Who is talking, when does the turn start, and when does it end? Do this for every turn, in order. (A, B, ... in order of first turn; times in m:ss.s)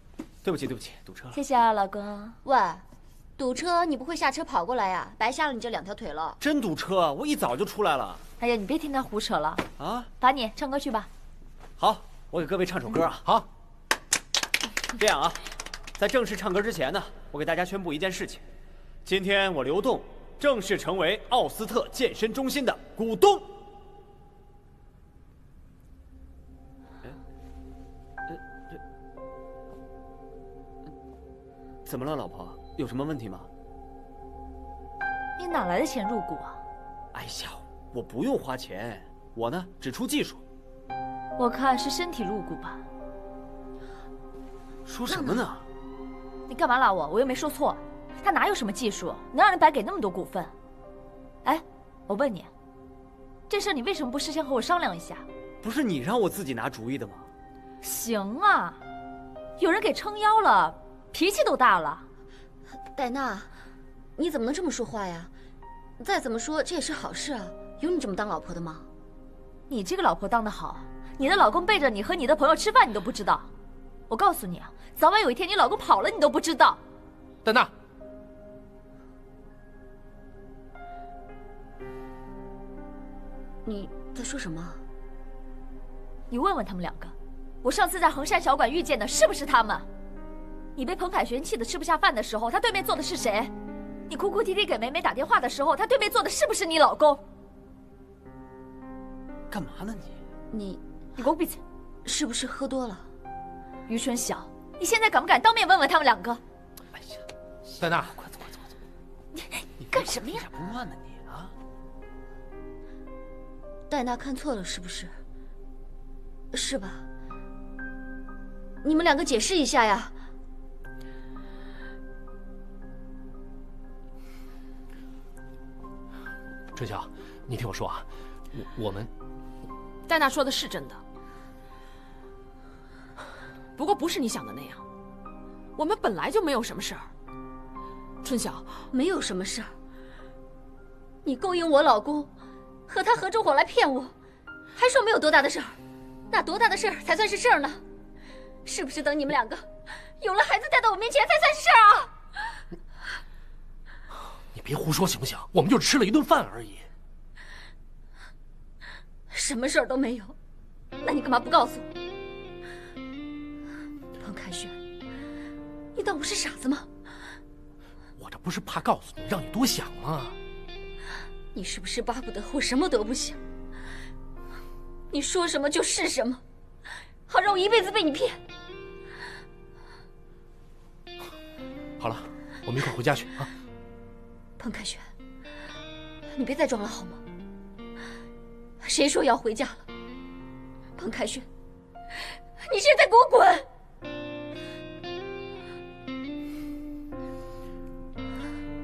0:00.4-0:01.4 A
0:01.3-0:02.4 B
0:02.4-0:06.4 C
0:06.4-0:08.2 A
0:08.4-0:09.6 B
0:09.8-0:10.1 A
0:10.2-0:11.1 B
0:11.8-0:13.2 A
0:15.0-0:15.4 A
0:16.0-0:18.4 A
0:19.0-0:23.5 A
0:28.3-0:28.8 A
0:31.9-0:33.5 A
0:35.4-0:36.6 B
0:37.1-0:40.4 A
0:41.4-0:42.8 B
0:44.9-0:45.6 A
0:46.5-0:50.5 B
0:51.4-0:52.5 B
0:53.5-0:55.3 B
0:55.6-0:57.3 A
0:57.8-0:58.8 B
0:59.6-1:02.1 B
1:02.9-1:03.5 C
1:04.2-1:05.3 C
1:06.0-1:08.9 C
1:09.7-1:13.5 B
1:14.1-1:16.8 B
1:17.4-1:17.7 D
1:23.6-1:24.8 C
1:26.3-1:29.9 B
1:30.8-1:33.5 B
1:34.1-1:37.2 B
1:39.5-1:40.2 A
1:40.5-1:40.8 C
1:41.2-1:41.6 B
1:42.0-1:43.1 C
1:43.9-1:46.4 B
1:47.0-1:47.2 A
1:47.8-1:48.2 D
1:48.0-1:48.6 A
1:49.4-1:50.4 B
1:49.8-1:51.5 A
1:53.9-1:55.1 C
1:56.5-1:57.1 C
1:58.8-2:00.2 C
2:06.7-2:09.1 D
2:10.1-2:11.0 E
2:13.8-2:14.8 E
2:15.8-2:17.1 E
2:18.2-2:18.8 E
2:18.9-2:19.7 C
2:21.2-2:22.3 C
2:22.9-2:24.2 C
2:24.7-2:25.8 C
2:26.3-2:27.8 C
2:28.6-2:32.2 C
2:34.5-2:36.9 D
2:39.3-2:40.4 C
2:41.0-2:41.9 C
2:44.2-2:44.8 C
2:46.0-2:46.9 C
2:48.2-2:50.4 D
2:51.5-2:53.4 C
2:55.1-2:56.4 C
2:57.3-2:58.4 C
3:02.0-3:03.5 D
3:04.6-3:05.1 C
3:06.3-3:07.2 C
3:08.8-3:09.9 C
3:11.0-3:11.5 C
3:12.6-3:13.7 C